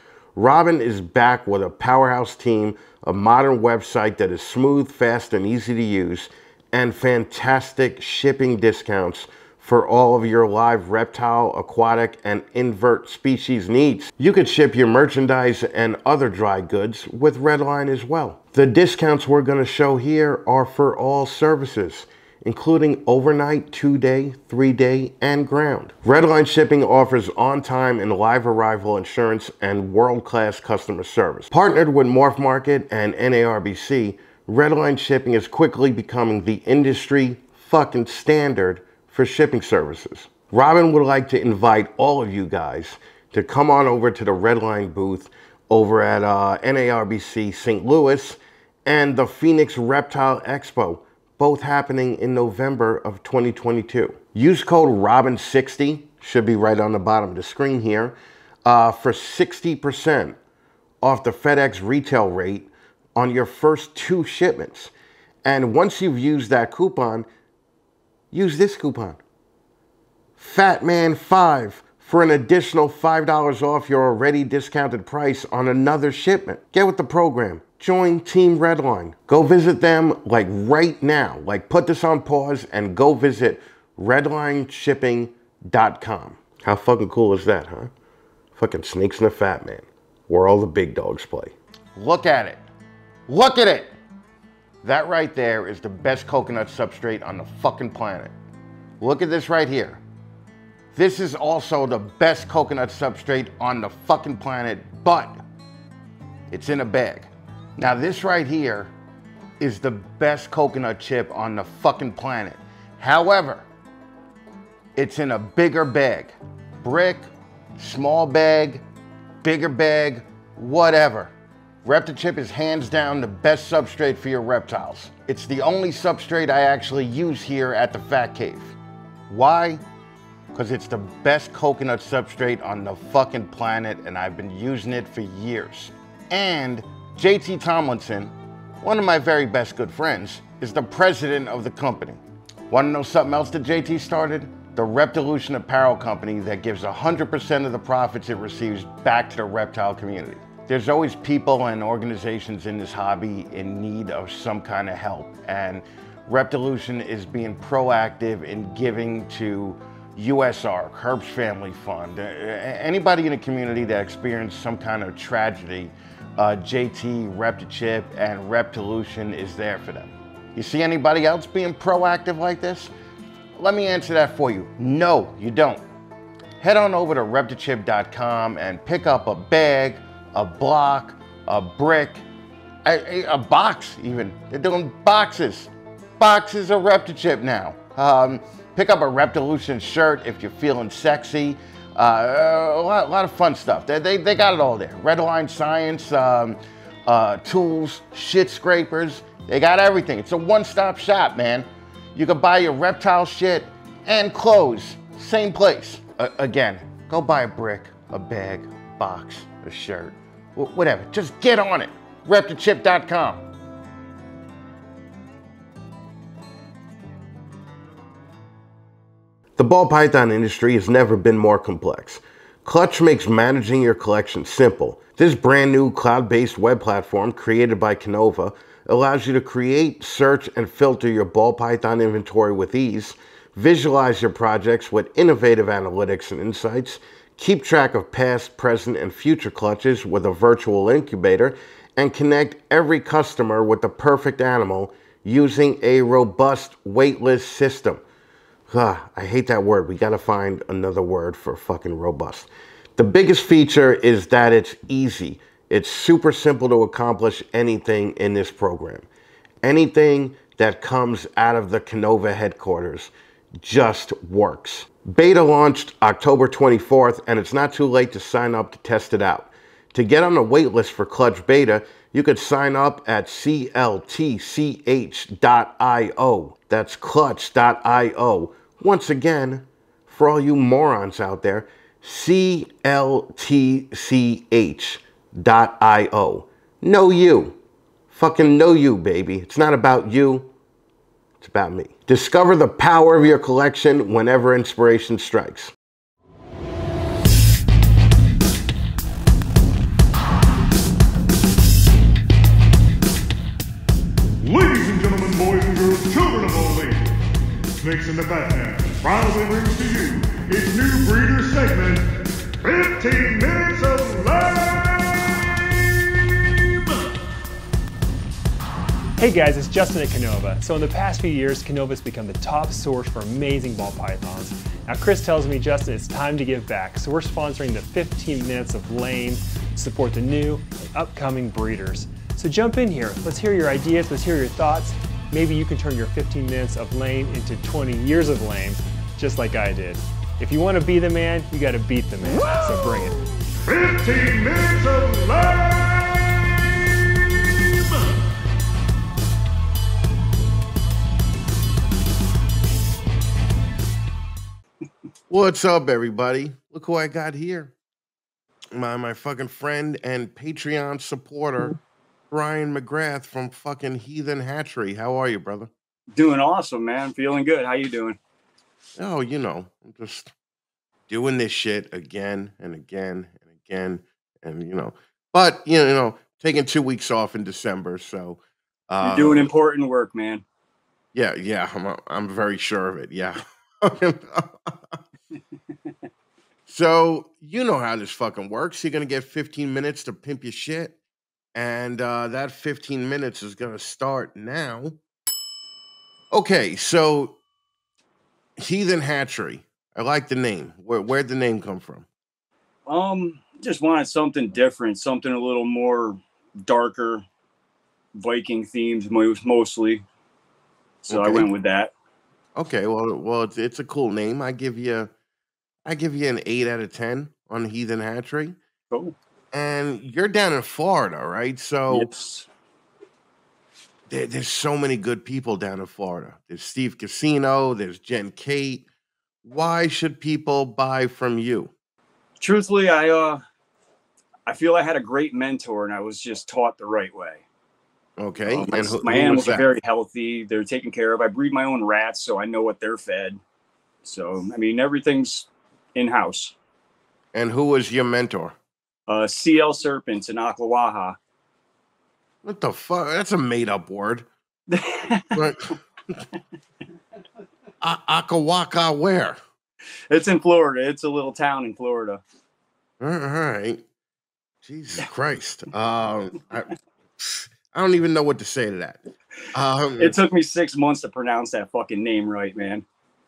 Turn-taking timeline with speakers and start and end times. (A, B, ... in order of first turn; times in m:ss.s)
0:00.4-1:00.4 A
1:01.0-1:04.9 A
1:05.4-1:07.2 A
1:08.3-1:09.2 A
1:10.4-1:27.9 A
1:28.5-1:32.6 A
1:33.3-1:33.9 A
1:34.8-1:38.3 A
1:39.0-1:40.0 A
1:40.9-1:45.4 A
1:46.5-1:48.9 A
1:49.6-1:53.6 A
1:55.0-1:58.8 A
1:59.4-2:01.3 A
2:01.8-2:08.7 A
2:09.3-2:09.8 A
2:10.5-2:52.9 A
2:53.6-2:55.8 A
2:56.6-3:02.2 A
3:02.8-3:33.4 A
3:39.6-4:08.0 A
4:08.7-4:19.0 A
4:19.6-4:47.6 A
4:48.1-4:50.5 A
4:51.4-4:55.7 A
5:04.4-5:07.1 B
5:07.8-5:15.8 B
5:16.6-5:16.8 B
5:19.2-5:43.2 C
5:42.4-5:43.0 B
5:43.6-5:47.7 B
5:55.3-5:57.7 A
5:58.7-6:01.8 A
6:02.3-6:05.7 A
6:06.1-6:08.2 D
6:09.0-6:10.3 A
6:11.1-6:19.5 A
6:19.0-6:20.4 D
6:21.1-6:24.7 A
6:26.7-6:31.0 A
6:31.5-6:35.0 A
6:36.3-6:37.4 A
6:38.6-6:42.0 A
6:42.8-6:47.2 D
6:48.1-6:50.0 D
6:51.0-6:51.9 D
6:51.1-6:51.5 A
6:52.6-6:55.1 A
6:55.8-6:58.6 A
6:59.5-7:02.1 A
7:01.9-7:02.5 D
7:04.1-7:08.8 A
7:09.4-7:11.7 A
7:12.4-7:13.4 D
7:14.4-7:17.4 D
7:18.2-7:19.7 A
7:18.5-7:23.4 D
7:24.0-7:26.5 D
7:27.3-7:28.6 A
7:29.1-7:31.2 D
7:32.4-7:34.3 A
7:34.7-7:35.5 D
7:35.3-7:36.2 A
7:37.8-7:39.4 A
7:40.1-7:42.2 D
7:43.0-7:43.8 A
7:44.6-7:49.0 A
7:49.5-7:50.2 A
7:50.0-7:52.8 D